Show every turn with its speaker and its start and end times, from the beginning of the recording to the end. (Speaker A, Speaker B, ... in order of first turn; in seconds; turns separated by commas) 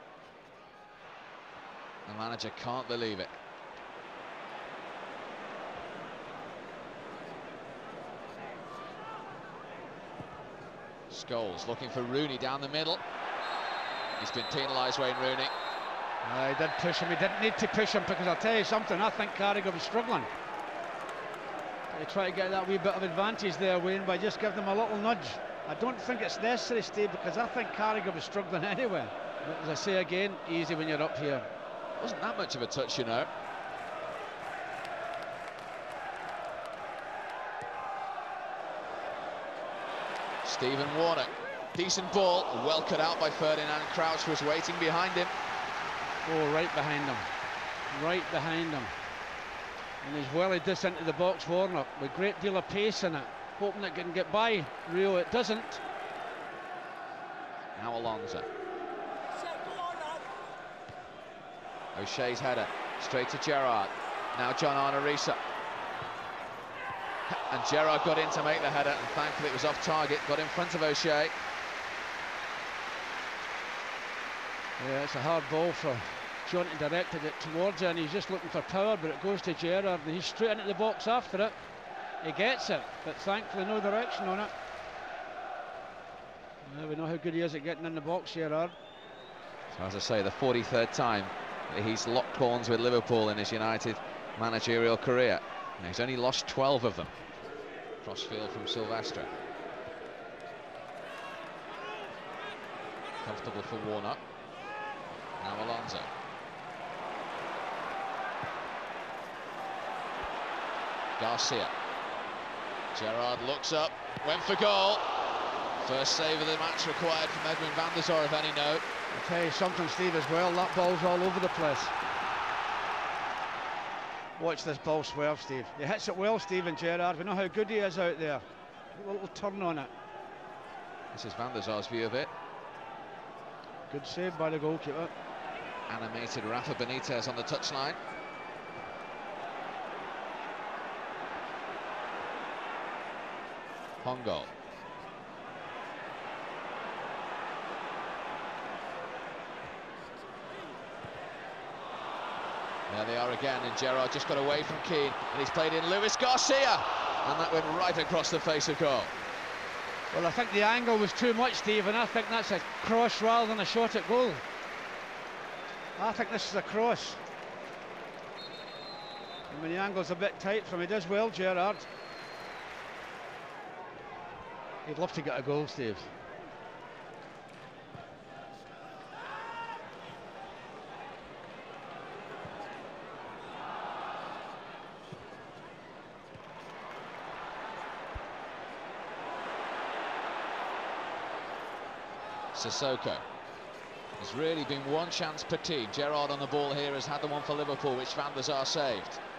Speaker A: 2.0-3.3, Speaker A: 11.1-13.0, Speaker A: 14.2-15.5, Speaker B: 16.2-20.3, Speaker B: 21.9-31.5, Speaker A: 32.0-33.3, Speaker A: 40.4-45.3, Speaker B: 46.2-47.3, Speaker B: 47.9-48.9, Speaker B: 50.0-55.8, Speaker A: 57.8-58.5, Speaker A: 61.9-65.4, Speaker A: 67.3-71.3, Speaker B: 74.8-81.5, Speaker B: 82.2-84.5, Speaker B: 86.6-88.7, Speaker A: 89.7-97.1, Speaker A: 98.0-99.3, Speaker A: 103.2-104.2, Speaker A: 105.4-106.1, Speaker A: 111.2-111.7, Speaker A: 112.9-115.0, Speaker A: 115.8-118.8, Speaker B: 119.1-121.9, Speaker B: 124.3-128.4, Speaker B: 128.9-129.9, Speaker A: 131.1-132.3, Speaker B: 133.9-135.1, Speaker A: 135.9-138.0, Speaker A: 144.0-144.5, Speaker A: 152.9-159.1, Speaker B: 160.1-164.4, Speaker B: 166.0-167.2, Speaker B: 169.5-171.9, Speaker B: 174.8-176.1, Speaker A: 192.5-193.2, Speaker A: 194.2-199.2